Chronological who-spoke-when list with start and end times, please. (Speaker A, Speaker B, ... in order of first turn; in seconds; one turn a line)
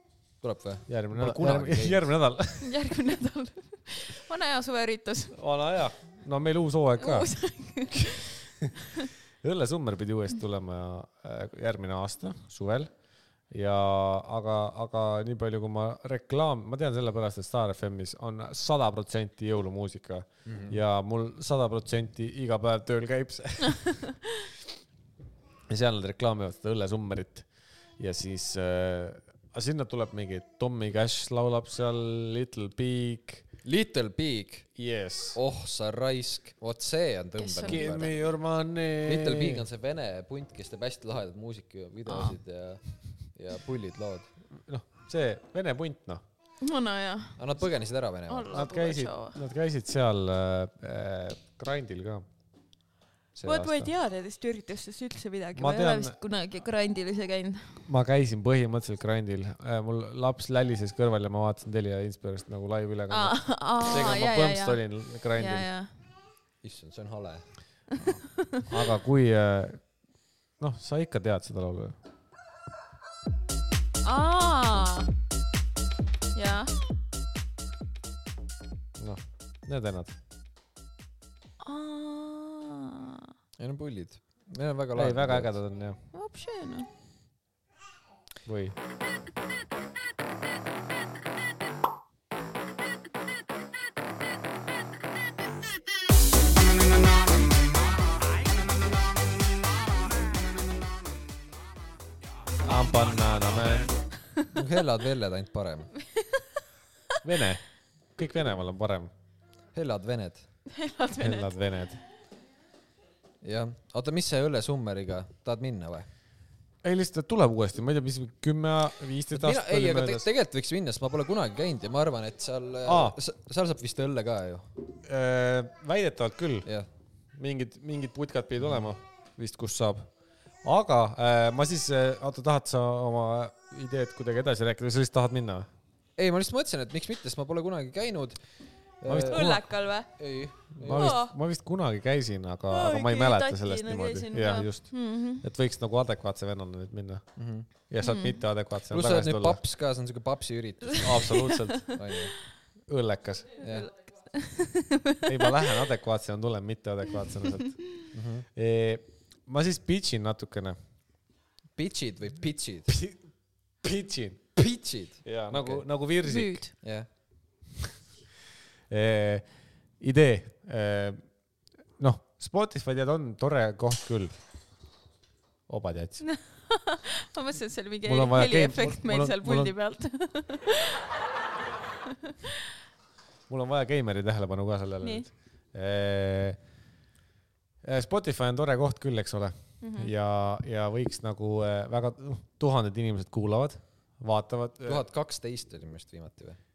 Speaker A: 0.4-2.1
Speaker B: 0.9-2.7
Speaker C: 2.6-5.4
Speaker B: 5.3-7.3
Speaker C: 7.0-9.1
Speaker B: 9.4-12.9
Speaker B: 13.5-24.1
Speaker A: 20.5-20.8
Speaker B: 25.7-27.5
Speaker B: 28.0-33.5
Speaker A: 33.6-34.7
Speaker B: 34.8-35.4
Speaker A: 35.3-38.1
Speaker C: 37.4-38.1
Speaker B: 37.7-39.6
Speaker A: 39.0-44.3
Speaker C: 42.1-42.4
Speaker B: 44.7-46.2
Speaker C: 46.6-47.4
Speaker A: 47.4-48.5
Speaker C: 48.3-49.4
Speaker B: 48.5-52.3
Speaker A: 53.4-53.8
Speaker C: 53.4-57.8
Speaker B: 55.6-56.2
Speaker B: 57.9-65.7
Speaker C: 63.1-65.9
Speaker A: 66.6-67.5
Speaker B: 68.7-69.9
Speaker B: 70.6-72.0
Speaker C: 74.0-75.1
Speaker C: 76.3-76.7
Speaker B: 79.0-80.2
Speaker C: 81.6-83.3
Speaker A: 83.6-85.6
Speaker B: 85.0-86.0
Speaker C: 86.1-86.9
Speaker B: 88.5-88.8
Speaker B: 102.7-103.9
Speaker A: 104.5-105.9
Speaker B: 107.2-107.6
Speaker B: 108.2-109.1
Speaker A: 109.7-110.5
Speaker C: 110.7-111.5
Speaker B: 111.2-112.0
Speaker A: 113.4-116.1
Speaker B: 116.8-120.3
Speaker A: 119.3-124.7
Speaker B: 122.9-123.2
Speaker B: 125.0-126.7
Speaker B: 127.4-130.1
Speaker B: 130.6-135.7
Speaker A: 136.2-141.2
Speaker B: 139.1-139.7
Speaker C: 139.3-140.3
Speaker B: 140.8-149.6
Speaker C: 140.9-141.3
Speaker C: 142.7-145.4
Speaker A: 147.4-147.7
Speaker C: 148.0-148.4
Speaker A: 148.9-152.3
Speaker B: 151.0-151.9
Speaker C: 151.3-151.8
Speaker B: 152.9-153.6
Speaker A: 153.6-153.9
Speaker C: 153.8-155.6
Speaker B: 155.2-157.8
Speaker A: 158.1-158.5
Speaker B: 158.6-160.8
Speaker A: 161.8-162.9
Speaker B: 162.9-163.2
Speaker B: 163.8-164.5
Speaker A: 164.6-165.8
Speaker B: 165.2-166.6
Speaker C: 166.2-166.7
Speaker A: 166.8-167.1
Speaker B: 168.9-169.5
Speaker B: 170.0-171.3
Speaker B: 172.0-174.3
Speaker B: 175.7-176.2
Speaker C: 176.2-181.0
Speaker B: 178.1-179.7
Speaker B: 183.5-186.6
Speaker C: 185.0-185.3
Speaker B: 187.8-195.0
Speaker C: 189.8-190.1
Speaker A: 194.8-196.6